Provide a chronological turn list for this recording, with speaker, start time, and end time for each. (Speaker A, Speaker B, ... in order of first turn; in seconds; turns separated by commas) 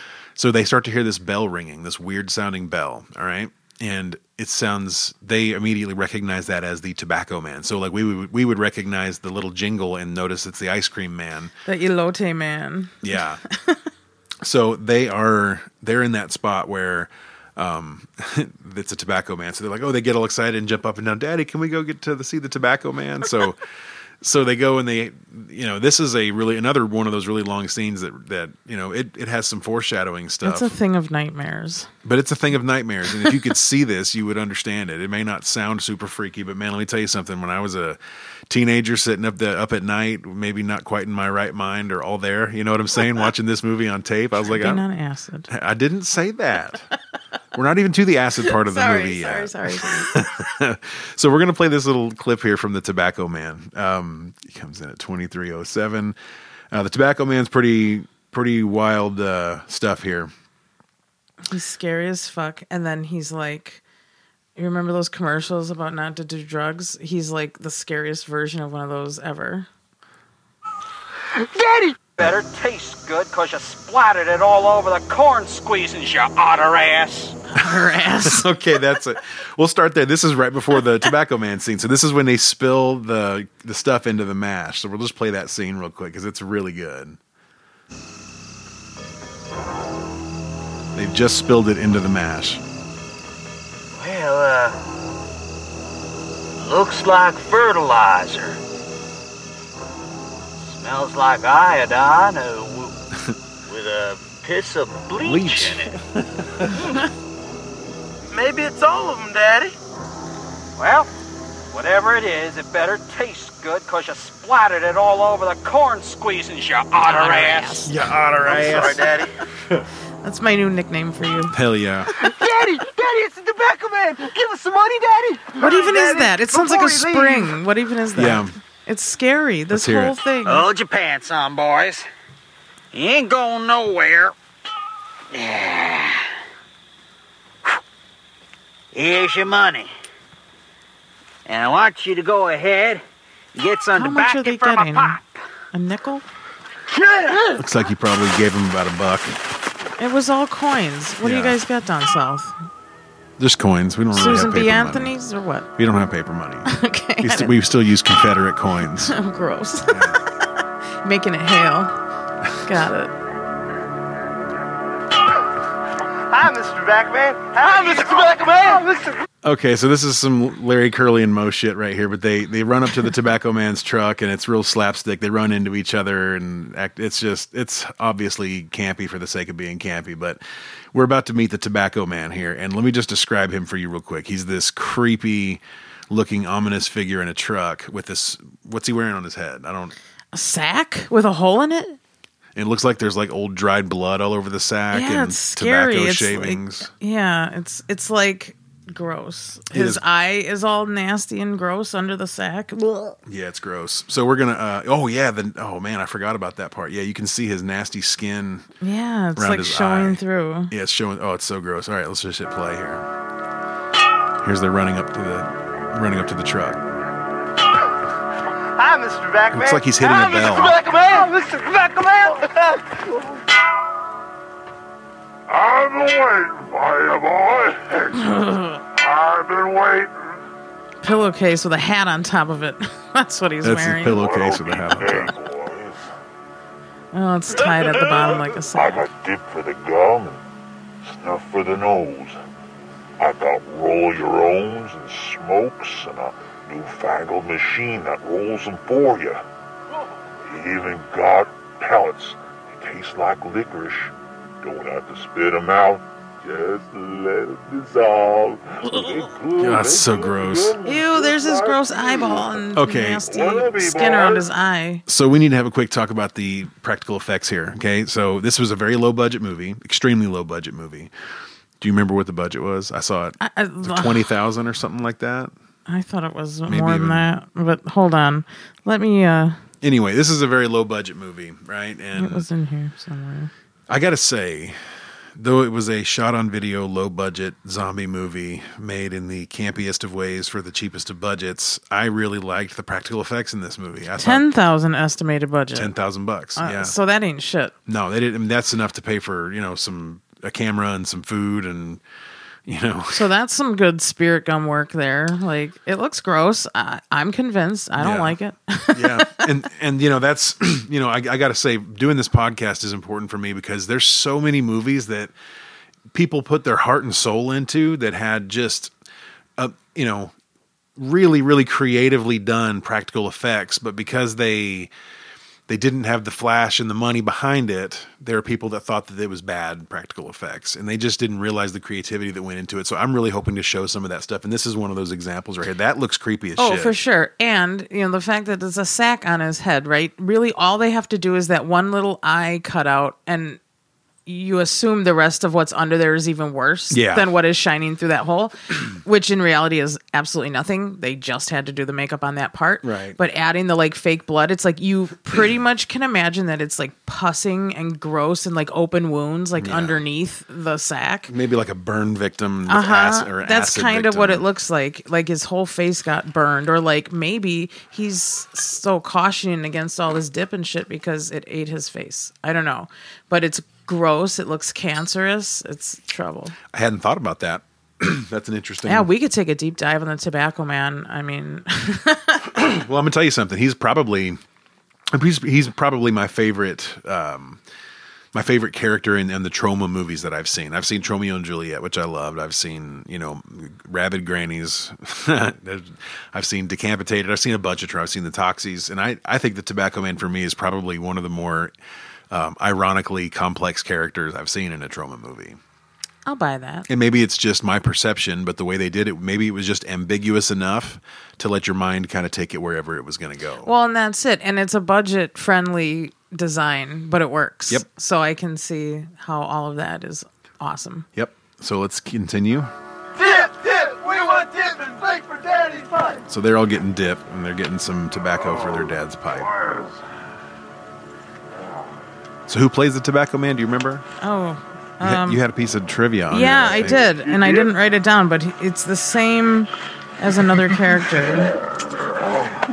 Speaker A: 0.4-11.5, Speaker B: 11.7-13.9, Speaker A: 13.0-13.4, Speaker A: 14.4-23.6, Speaker A: 24.2-30.8, Speaker B: 30.4-31.9, Speaker A: 32.0-44.8, Speaker B: 44.5-45.5, Speaker A: 45.5-46.9, Speaker A: 47.5-56.2, Speaker B: 48.5-50.1, Speaker A: 56.7-60.3, Speaker B: 61.5-63.8, Speaker B: 64.6-69.7, Speaker C: 72.2-77.3, Speaker B: 77.6-78.5, Speaker A: 77.7-87.2, Speaker A: 91.0-92.6, Speaker C: 94.0-94.8, Speaker C: 96.6-98.6, Speaker C: 100.7-102.9, Speaker C: 103.7-105.9, Speaker A: 105.2-106.7, Speaker C: 108.3-109.7, Speaker C: 110.8-111.1, Speaker C: 111.7-119.2, Speaker B: 117.0-117.9, Speaker A: 117.9-119.0, Speaker B: 120.2-121.5, Speaker A: 121.5-122.1, Speaker D: 122.4-127.4, Speaker B: 125.6-130.7, Speaker A: 128.2-128.5, Speaker A: 129.7-130.2, Speaker C: 130.5-132.1, Speaker C: 132.9-134.3, Speaker C: 135.3-136.2, Speaker C: 138.9-139.9, Speaker C: 141.5-143.0, Speaker C: 143.6-145.2, Speaker B: 144.0-145.2, Speaker B: 145.7-146.2, Speaker A: 147.6-149.4, Speaker B: 150.0-152.6, Speaker A: 151.2-151.6, Speaker A: 153.4-155.2, Speaker B: 154.1-155.7, Speaker A: 155.8-159.2, Speaker B: 156.7-157.6, Speaker B: 159.1-160.2, Speaker A: 159.9-160.2, Speaker B: 161.0-161.9, Speaker B: 162.6-163.1, Speaker D: 166.3-169.1, Speaker A: 169.4-180.4, Speaker A: 180.9-189.9, Speaker B: 190.3-192.0, Speaker A: 192.6-196.9, Speaker B: 194.9-203.2, Speaker A: 199.7-200.0, Speaker A: 203.3-208.7, Speaker B: 208.8-210.7, Speaker A: 209.4-213.1, Speaker A: 214.4-216.8, Speaker D: 218.8-222.9, Speaker A: 219.5-220.8, Speaker E: 225.5-230.4, Speaker B: 228.2-228.8, Speaker B: 231.0-234.2, Speaker A: 233.6-235.4, Speaker E: 234.1-236.1, Speaker B: 237.1-239.1, Speaker E: 237.6-240.4, Speaker E: 241.1-242.4, Speaker E: 243.2-249.4, Speaker E: 250.4-264.5, Speaker A: 259.6-260.8, Speaker B: 260.8-265.0, Speaker A: 262.8-263.3, Speaker A: 265.1-271.1, Speaker A: 271.8-275.5, Speaker B: 273.4-274.3, Speaker B: 275.9-279.6, Speaker A: 276.7-277.2, Speaker A: 279.8-282.5, Speaker B: 282.2-283.5, Speaker A: 283.9-284.8, Speaker A: 285.4-294.4, Speaker B: 294.2-295.9, Speaker A: 295.8-296.9, Speaker B: 296.6-297.7, Speaker A: 297.9-302.0, Speaker A: 302.7-303.3, Speaker B: 303.1-309.4, Speaker A: 308.0-308.4, Speaker A: 308.9-315.3, Speaker A: 316.1-318.9, Speaker A: 319.6-320.3, Speaker A: 321.0-324.9, Speaker A: 325.7-337.0, Speaker B: 336.6-343.6, Speaker B: 344.3-361.3, Speaker A: 346.9-347.3, Speaker A: 352.8-353.2, Speaker A: 359.6-360.0, Speaker A: 361.3-364.4, Speaker B: 362.7-376.6, Speaker A: 376.7-379.1, Speaker B: 378.9-382.6, Speaker A: 382.5-384.4, Speaker A: 385.1-387.6, Speaker A: 388.3-401.7, Speaker A: 402.3-405.6, Speaker B: 406.3-406.9, Speaker A: 406.9-413.7, Speaker B: 413.6-421.1, Speaker A: 421.1-422.7, Speaker D: 423.2-426.2, Speaker A: 426.3-429.5, Speaker E: 428.5-428.8, Speaker E: 429.4-429.9, Speaker A: 432.5-434.1, Speaker B: 434.2-435.4, Speaker A: 435.0-437.1, Speaker B: 436.3-441.5, Speaker E: 437.1-437.7